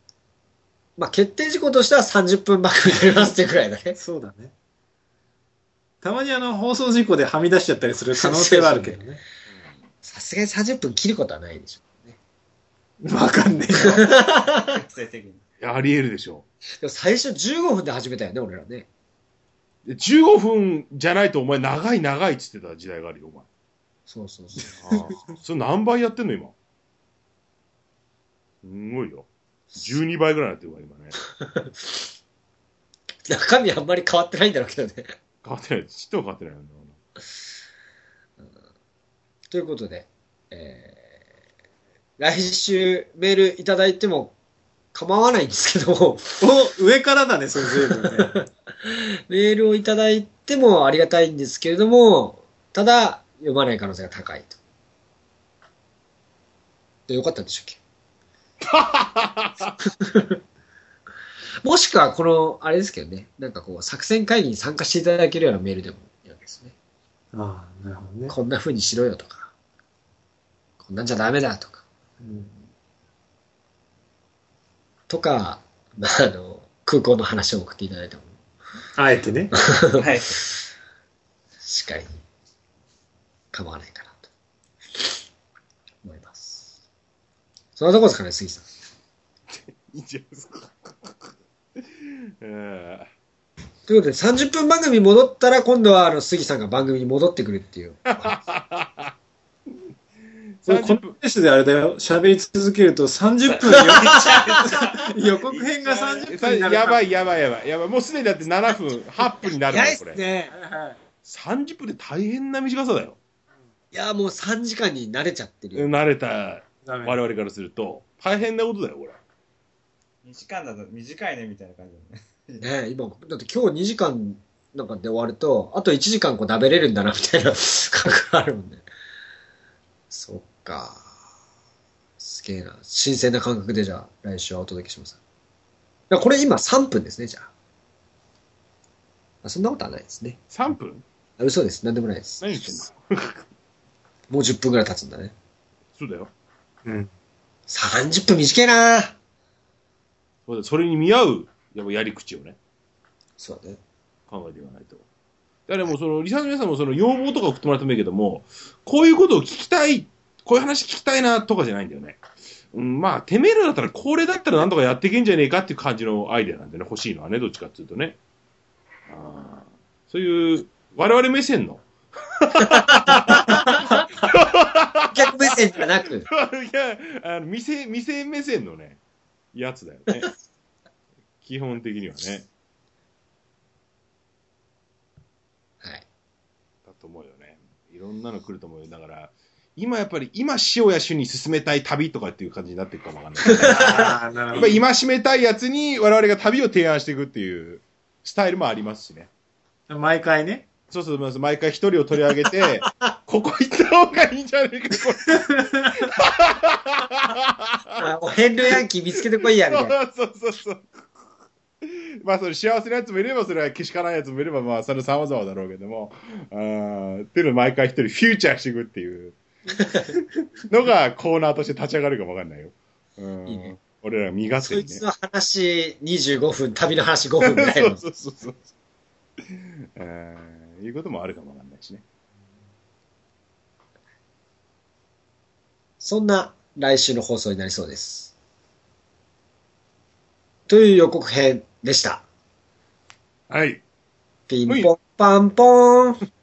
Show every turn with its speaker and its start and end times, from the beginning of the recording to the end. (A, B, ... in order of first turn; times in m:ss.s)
0:01.0-0:04.0 A
0:04.0-0:04.5 B
0:06.0-0:09.2 B
0:08.2-0:09.0 A
0:10.0-0:12.2 A
0:13.0-0:14.0 B
0:13.8-0:14.7 A
0:14.7-0:15.4 C
0:15.6-0:16.4 D
0:16.8-0:18.9 A
0:19.8-0:23.4 D
0:24.1-0:24.8 A
0:24.8-0:26.5 D
0:28.6-0:31.1 D
0:31.4-0:32.0 A
0:33.3-0:35.1 A
0:35.4-0:36.9 D
0:39.5-0:41.0 A
0:42.2-0:44.3 A
0:44.9-0:46.4 A
0:46.4-0:48.3 B
0:48.0-0:54.6 A
0:57.1-0:57.8 A
0:58.6-0:59.7 D
1:00.0-1:00.4 A
1:01.6-1:06.7 A
1:07.3-1:08.3 B
1:08.3-1:09.5 A
1:10.8-1:11.8 A
1:12.2-1:12.5 B
1:15.1-1:18.3 A
1:19.0-1:19.5 B
1:19.5-1:20.0 A
1:20.0-1:20.4 C
1:21.6-1:22.1 A
1:23.5-1:24.3 A
1:26.0-1:26.6 A
1:27.8-1:28.6 A
1:29.8-1:31.1 D
1:32.4-1:33.1 D
1:33.9-1:38.4 A
1:38.2-1:39.1 D
1:40.6-1:41.1 D
1:40.7-1:47.0 B
1:43.4-1:46.3 C
1:43.7-1:44.6 A
1:46.3-1:50.2 D
1:49.2-1:50.5 A
1:50.5-1:51.0 B
1:51.2-1:53.2 D
1:53.9-1:55.9 A
1:55.7-1:59.2 D
1:56.8-1:57.2 B
2:00.2-2:02.6 C
2:02.6-2:08.8 A
2:10.1-2:11.0 A
2:12.2-2:15.2 A
2:16.1-2:17.5 A
2:19.4-2:20.4 A
2:20.5-2:21.0 D
2:21.4-2:22.5 A
2:22.4-2:23.4 D
2:24.3-2:25.3 A
2:26.0-2:26.3 D
2:27.7-2:29.1 A
2:30.5-2:32.6 D
2:33.4-2:33.8 A
2:34.3-2:35.0 D
2:35.7-2:42.2 D
2:42.7-2:48.2 D
2:49.1-2:51.8 D
2:52.4-2:55.6 D
2:52.6-2:54.0 A
2:55.1-2:56.2 A
2:56.3-2:59.0 D
2:59.5-3:00.3 D
3:01.4-3:02.5 D
3:05.8-3:06.0 A
3:06.9-3:14.0 D
3:13.5-3:14.2 A
3:13.6-3:14.8 B
3:14.5-3:19.3 D
3:19.9-3:20.7 B
3:20.9-3:28.0 D
3:28.0-3:29.9 A
3:29.4-3:30.8 D
3:31.8-3:39.4 D
3:40.7-3:45.0 D
3:43.5-3:43.8 A
3:44.6-3:48.0 A
3:47.4-3:48.6 D
3:49.5-3:52.0 D
3:56.0-3:58.3 A
4:00.7-4:02.2 A
4:03.5-4:03.8 D
4:04.5-4:06.2 A
4:04.7-4:04.9 D